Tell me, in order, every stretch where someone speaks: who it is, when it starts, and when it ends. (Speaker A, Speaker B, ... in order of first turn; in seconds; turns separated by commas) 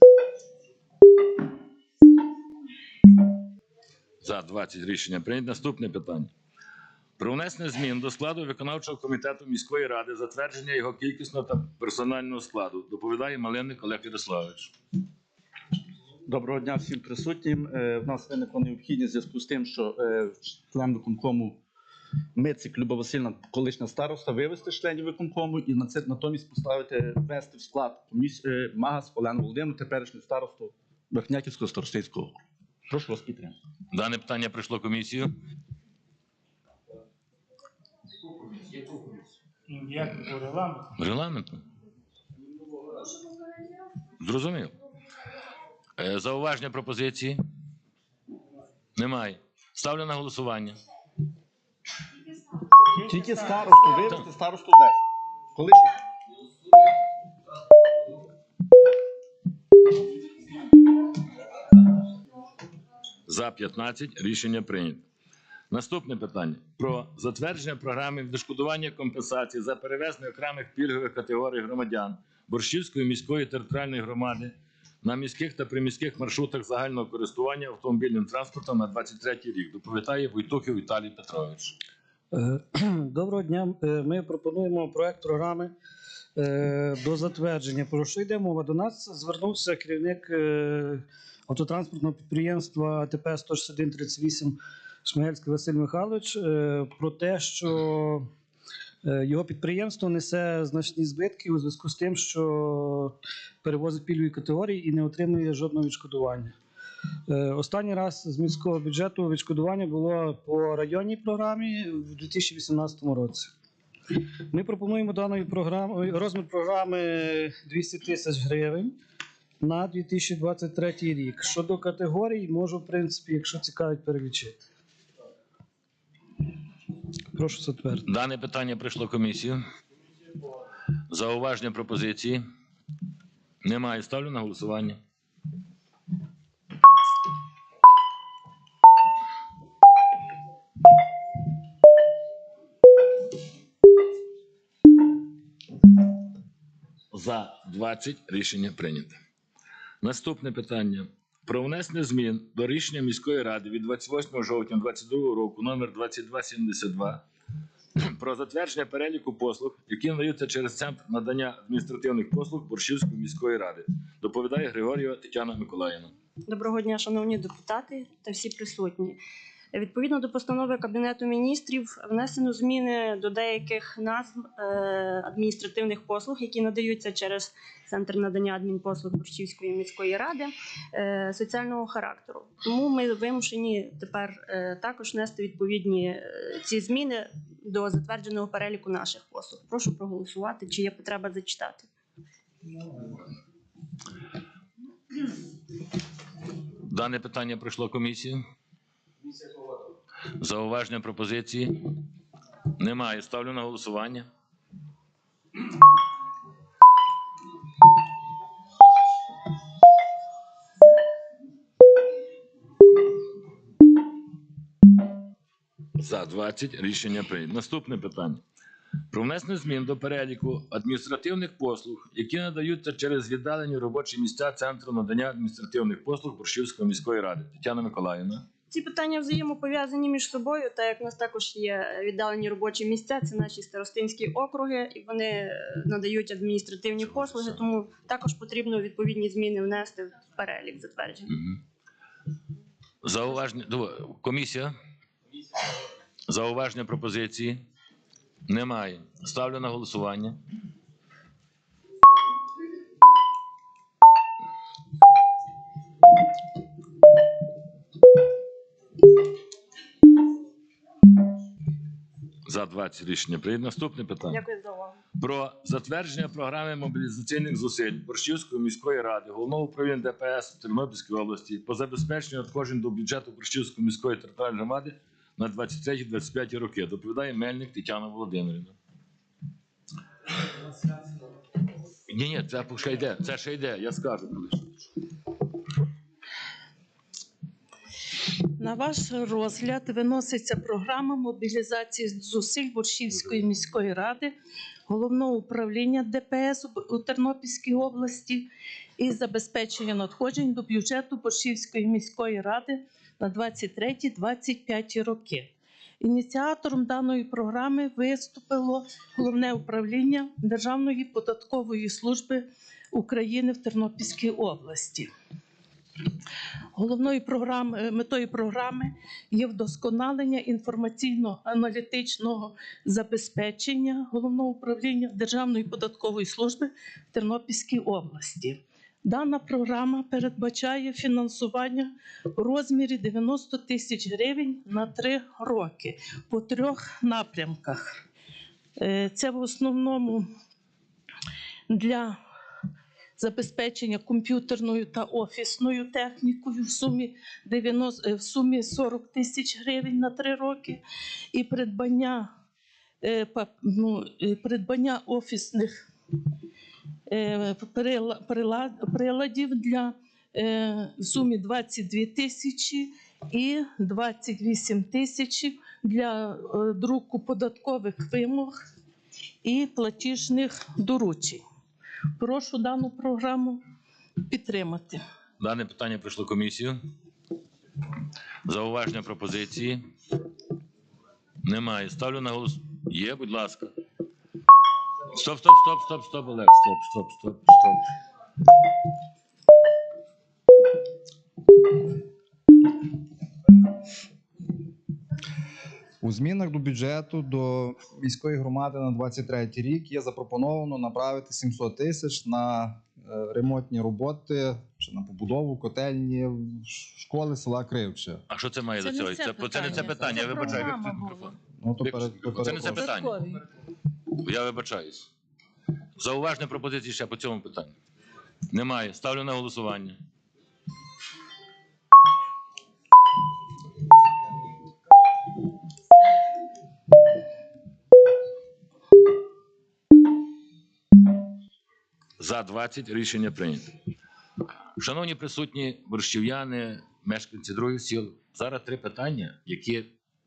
Speaker A: 4.2-6.3, Speaker A: 7.2-14.7, Speaker B: 16.2-21.6, Speaker B: 22.3-32.4, Speaker B: 32.9-33.5, Speaker A: 33.9-35.3, Speaker C: 39.7-40.9, Speaker A: 40.9-41.6, Speaker A: 44.2-44.7, Speaker A: 46.0-47.4, Speaker A: 49.0-50.8, Speaker C: 52.9-54.1, Speaker B: 53.0-55.0, Speaker B: 55.5-55.9, Speaker A: 63.3-65.0, Speaker A: 65.7-81.8, Speaker D: 82.3-85.7, Speaker D: 86.3-98.3, Speaker D: 99.0-106.5, Speaker D: 107.3-113.5, Speaker D: 114.5-119.0, Speaker D: 119.6-124.6, Speaker D: 127.3-128.0, Speaker A: 128.0-129.6, Speaker A: 131.1-132.4, Speaker A: 133.6-135.0, Speaker A: 147.1-149.2, Speaker A: 150.0-157.2, Speaker A: 158.0-166.1, Speaker E: 166.5-169.2, Speaker E: 169.7-191.9, Speaker A: 196.8-198.4, Speaker A: 200.4-201.9, Speaker A: 202.8-204.3, Speaker A: 216.0-218.4, Speaker A: 219.1-228.4, Speaker E: 228.7-241.3, Speaker A: 237.1-237.6, Speaker A: 243.0-244.7, Speaker A: 246.3-247.6, Speaker A: 248.5-250.4, Speaker A: 262.4-264.4, Speaker E: 264.3-265.0, Speaker A: 265.2-278.8, Speaker A: 282.1-284.9, Speaker F: 288.6-294.3, Speaker F: 294.9-315.1, Speaker F: 316.7-338.0, Speaker F: 338.8-340.3, Speaker F: 341.7-342.2, Speaker F: 343.2-350.8, Speaker F: 351.3-352.3, Speaker F: 353.0-355.8, Speaker F: 357.1-368.6, Speaker F: 369.4-371.4, Speaker F: 372.2-373.6, Speaker F: 374.3-375.0, Speaker A: 375.4-376.8, Speaker A: 378.4-379.8, Speaker A: 381.4-383.7, Speaker A: 385.1-387.9, Speaker G: 396.0-408.2, Speaker A: 408.3-413.2, Speaker F: 408.8-411.4, Speaker G: 411.6-413.0, Speaker F: 412.7-413.4, Speaker A: 414.2-415.1, Speaker A: 416.0-417.7, Speaker A: 418.5-420.0, Speaker A: 432.2-433.7, Speaker A: 434.8-439.9